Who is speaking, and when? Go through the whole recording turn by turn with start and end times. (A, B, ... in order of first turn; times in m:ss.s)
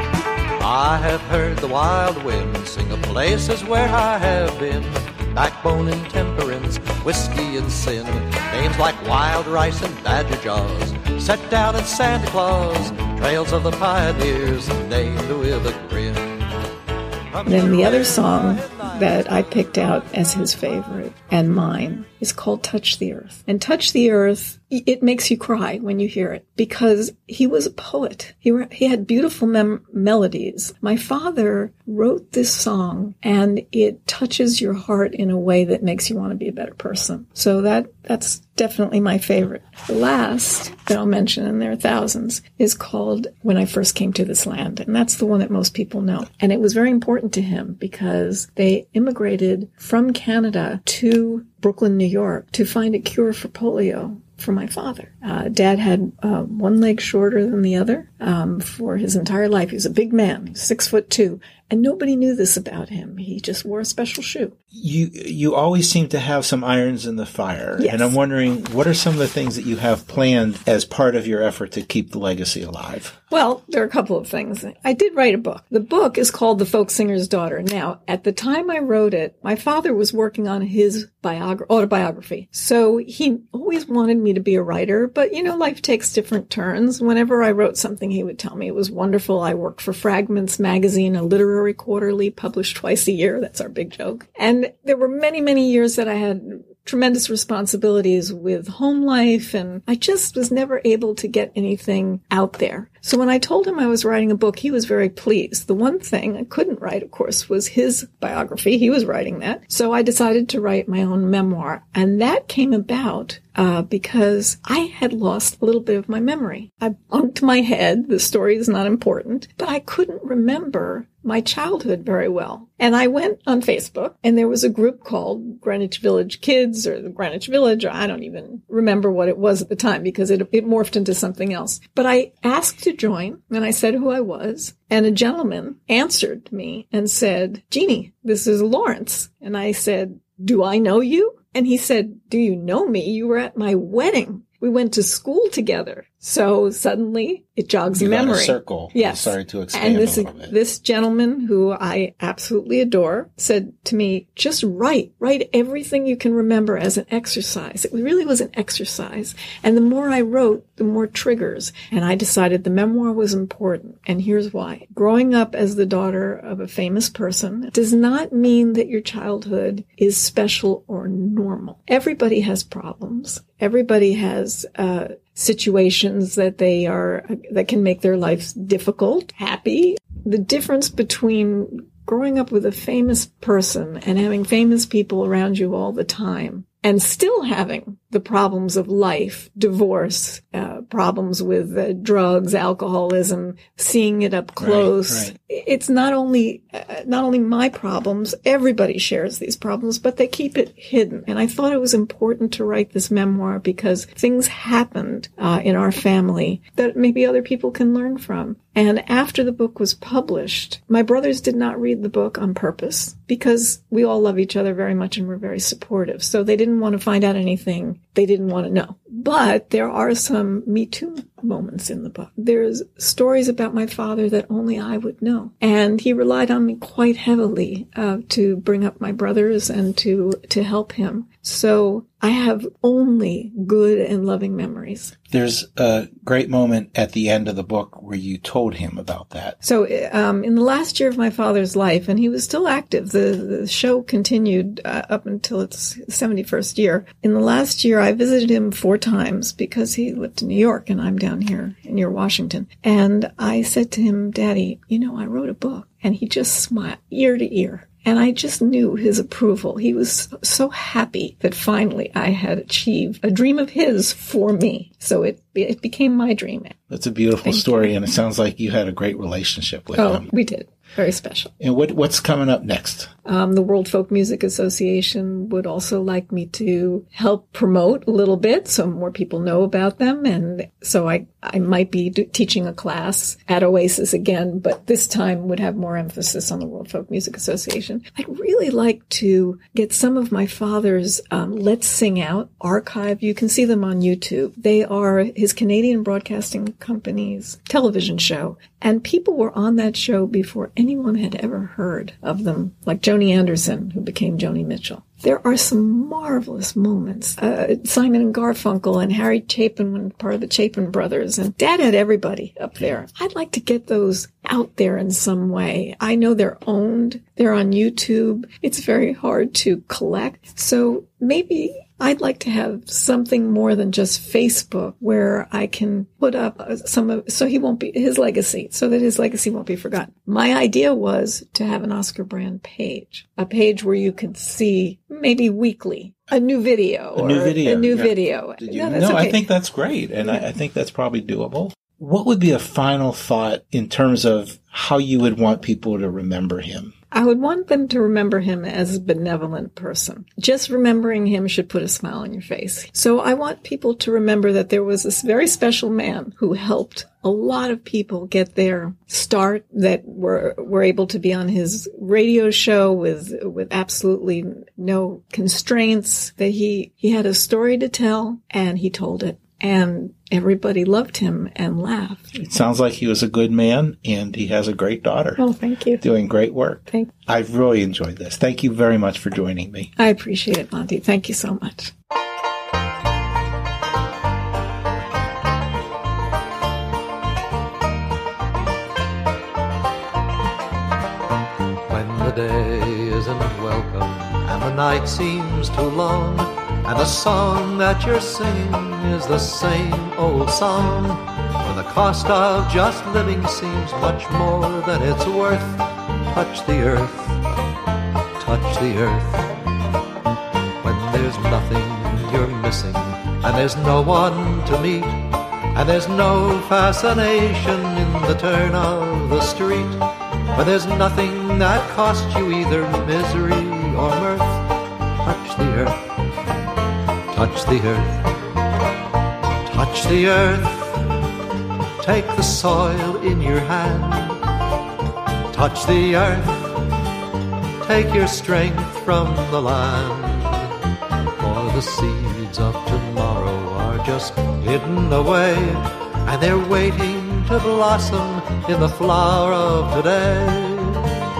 0:00.6-0:16.6 A
0:17.3-0:19.4 A
0:17.4-1:04.5 B
1:04.7-1:13.1 C
1:07.8-1:08.2 B
1:13.3-3:55.1 B
2:27.9-2:30.5 C
3:14.6-3:15.3 C
3:55.3-3:59.6 C
3:59.6-4:26.8 B
4:26.9-4:30.3 C
4:27.4-4:27.9 B
4:30.0-4:31.5 B
4:31.6-4:33.1 C
4:33.2-5:39.4 B
5:37.2-5:46.9 C
5:47.1-6:12.3 B
6:12.3-6:15.4 C
6:15.4-6:16.0 B
6:16.0-6:19.9 C
6:20.0-6:21.9 B
6:31.9-6:47.5 A
6:48.4-6:49.6 A
6:50.8-7:06.0 A
7:07.3-7:08.4 A
7:09.6-7:11.2 A
7:12.0-7:14.5 A
7:15.5-7:17.0 A
7:17.8-7:20.7 A
7:21.4-7:31.2 A